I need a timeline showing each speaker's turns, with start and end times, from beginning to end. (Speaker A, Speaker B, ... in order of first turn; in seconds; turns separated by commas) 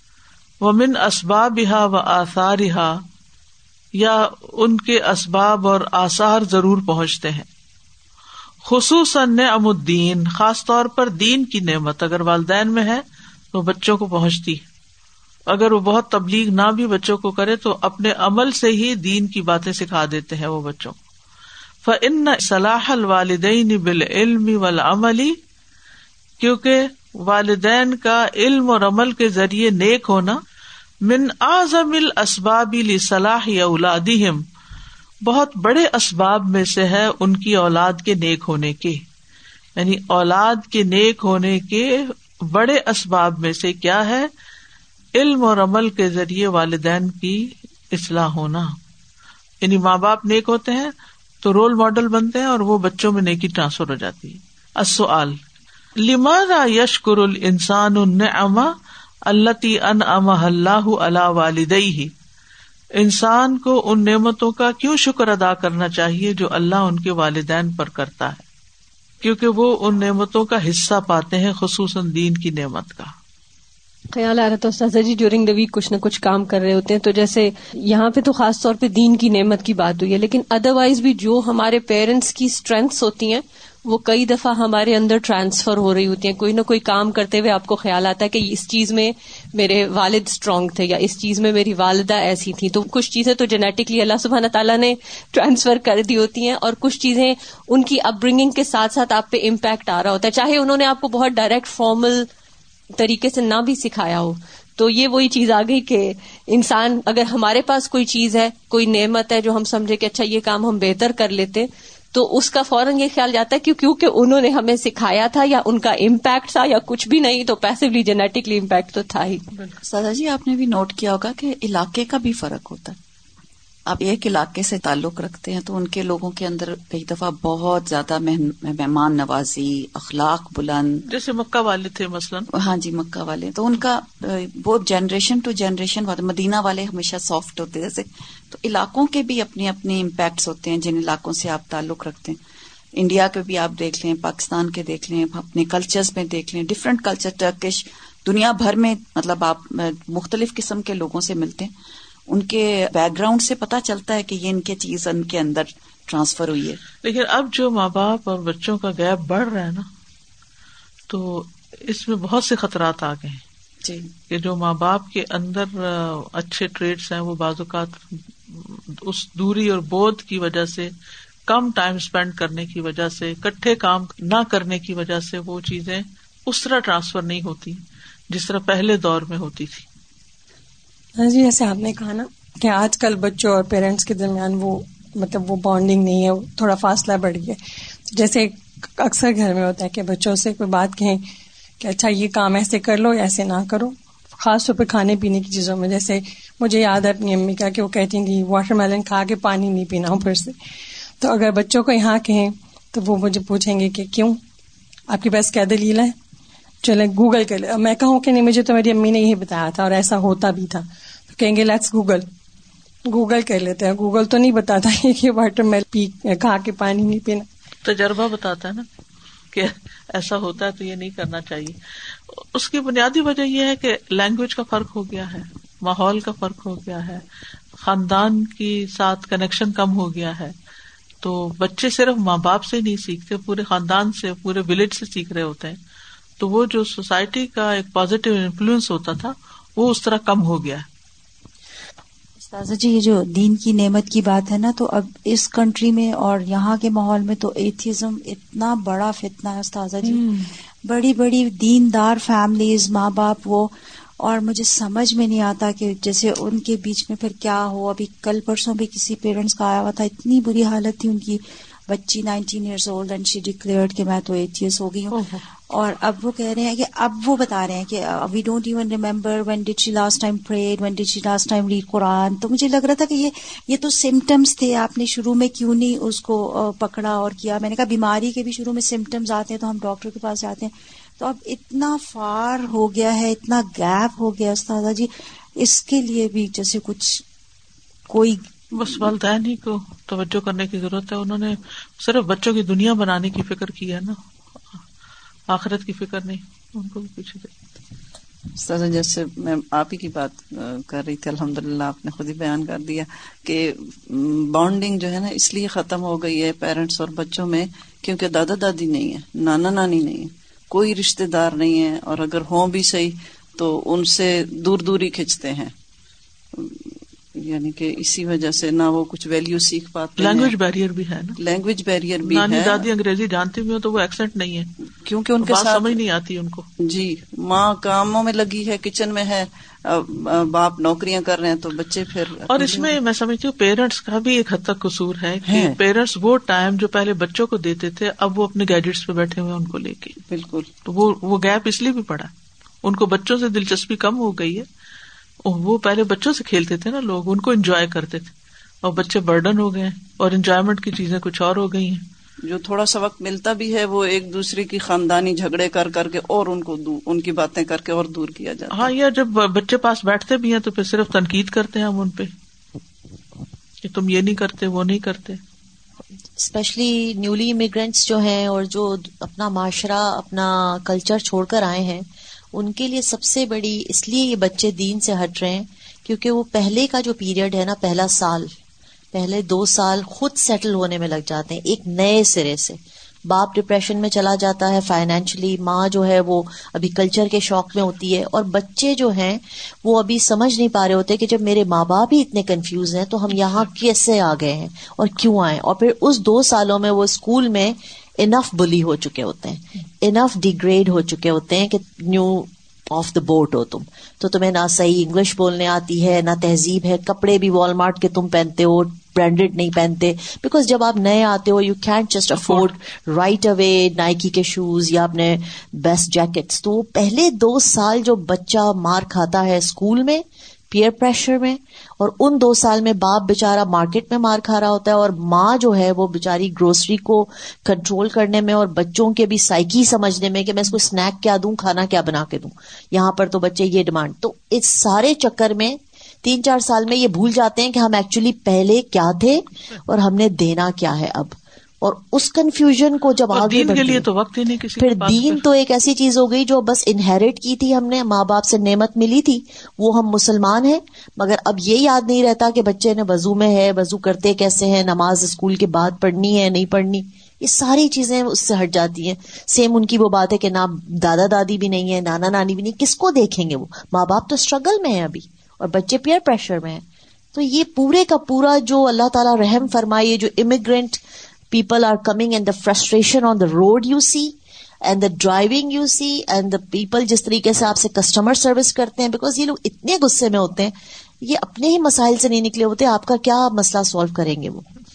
Speaker A: 0.6-3.0, Speaker A: 4.0-7.5, Speaker A: 8.7-14.7, Speaker A: 15.5-21.0, Speaker A: 21.8-25.4, Speaker A: 26.4-30.4, Speaker A: 31.0-34.4, Speaker A: 35.2-39.0, Speaker A: 39.8-41.9, Speaker A: 42.5-44.3, Speaker A: 45.2-48.7, Speaker A: 49.6-55.4, Speaker A: 56.0-58.7, Speaker A: 59.3-62.1, Speaker A: 63.0-68.4, Speaker A: 69.2-73.1, Speaker B: 74.1-102.3, Speaker B: 103.0-119.5, Speaker C: 119.8-123.0, Speaker C: 123.9-131.0, Speaker A: 131.1-132.5, Speaker C: 132.5-142.4, Speaker C: 143.0-151.7, Speaker C: 152.3-156.8, Speaker A: 157.0-159.9, Speaker A: 161.1-163.4, Speaker C: 163.8-164.1, Speaker A: 164.3-170.9, Speaker A: 171.5-179.9, Speaker D: 181.2-187.6, Speaker D: 188.1-191.2, Speaker D: 191.8-200.6, Speaker D: 201.2-204.4, Speaker D: 205.1-206.2, Speaker D: 206.8-212.3, Speaker D: 213.1-217.5, Speaker A: 217.8-218.9, Speaker A: 219.5-221.8, Speaker A: 222.3-227.2, Speaker A: 227.8-230.6, Speaker A: 231.2-235.8, Speaker A: 236.4-240.8, Speaker E: 242.4-250.3, Speaker E: 250.8-287.2, Speaker E: 288.1-288.5, Speaker A: 288.7-294.2, Speaker A: 295.5-297.5, Speaker F: 298.6-315.7, Speaker F: 316.5-320.5, Speaker A: 320.2-321.4, Speaker F: 321.4-322.9, Speaker A: 322.2-324.7, Speaker F: 325.0-325.9, Speaker A: 325.4-326.7, Speaker F: 326.9-333.0, Speaker A: 332.5-340.2, Speaker F: 335.5-335.8, Speaker F: 340.2-340.7, Speaker A: 340.9-342.3, Speaker A: 342.8-344.6, Speaker A: 345.4-348.3, Speaker A: 348.8-352.1, Speaker F: 352.5-358.9, Speaker A: 358.7-362.3, Speaker A: 363.8-365.4, Speaker G: 366.4-378.5, Speaker G: 379.1-444.1, Speaker A: 412.4-412.7, Speaker A: 443.3-445.4, Speaker G: 444.8-466.8, Speaker G: 467.3-484.6